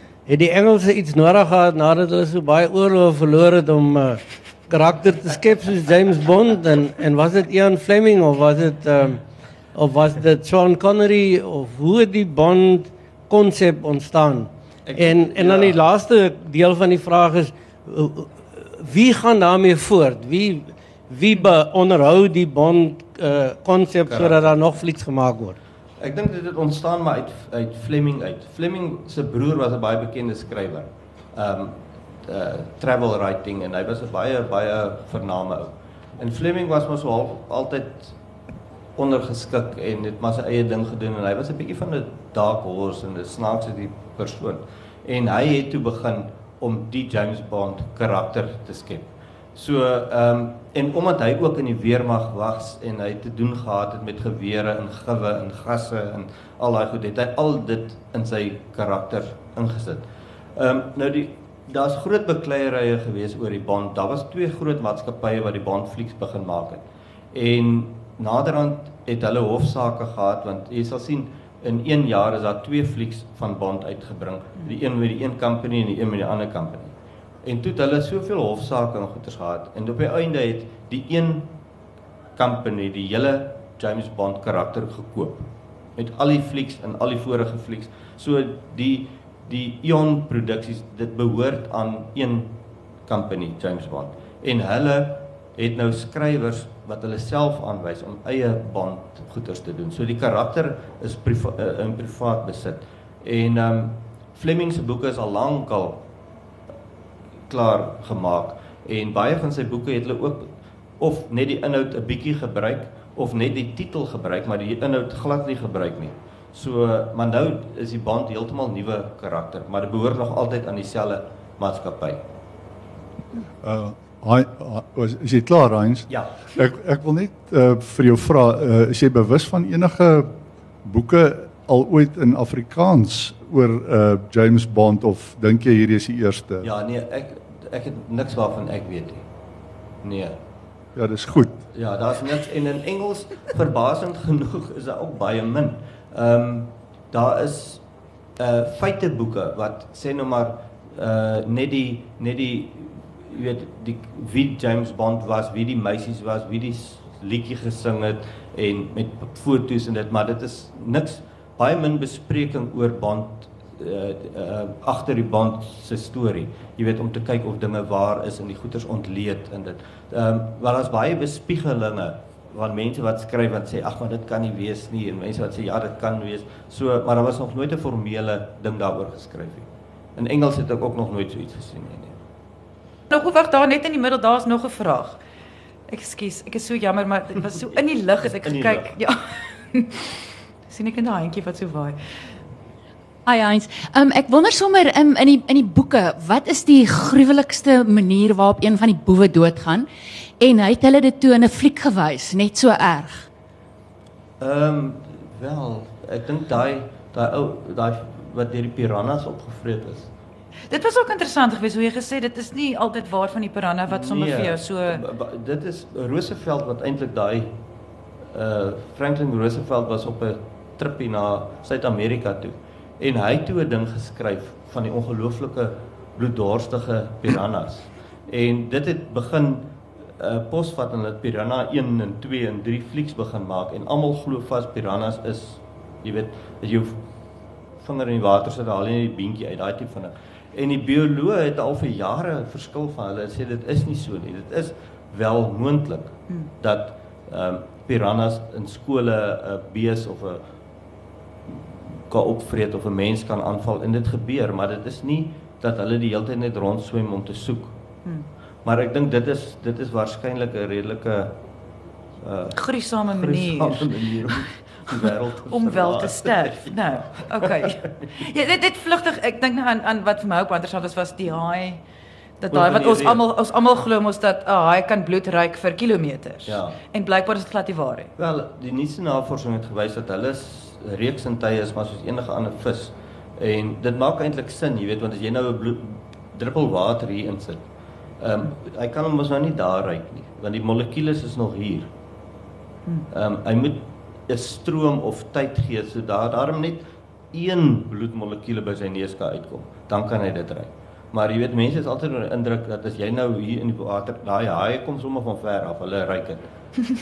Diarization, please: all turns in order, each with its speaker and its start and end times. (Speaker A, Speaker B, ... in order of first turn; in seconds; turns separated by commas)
Speaker A: 0.2-9.2, Speaker A: 9.7-25.6, Speaker B: 14.8-15.8, Speaker B: 24.1-24.6, Speaker B: 26.0-38.1, Speaker B: 39.0-81.5, Speaker B: 82.4-92.5, Speaker B: 93.0-106.0, Speaker B: 107.5-122.2, Speaker C: 123.6-136.7, Speaker B: 136.6-139.3, Speaker B: 140.0-140.4, Speaker C: 140.9-141.6, Speaker B: 141.7-147.8, Speaker B: 148.4-182.2, Speaker D: 183.1-185.2, Speaker D: 185.9-190.1, Speaker B: 188.2-189.0, Speaker D: 190.7-191.9, Speaker E: 193.2-199.9, Speaker E: 200.4-203.3, Speaker B: 204.4-210.1, Speaker D: 210.7-215.0, Speaker B: 213.8-217.5, Speaker B: 218.3-237.0, Speaker B: 237.8-250.4, Speaker B: 251.5-257.8, Speaker B: 258.6-261.3, Speaker B: 262.2-268.1, Speaker D: 262.5-264.4, Speaker D: 264.9-271.8, Speaker D: 272.4-278.1, Speaker B: 272.5-273.2, Speaker B: 276.4-276.8, Speaker B: 278.2-287.6, Speaker B: 288.2-291.9, Speaker B: 293.1-306.4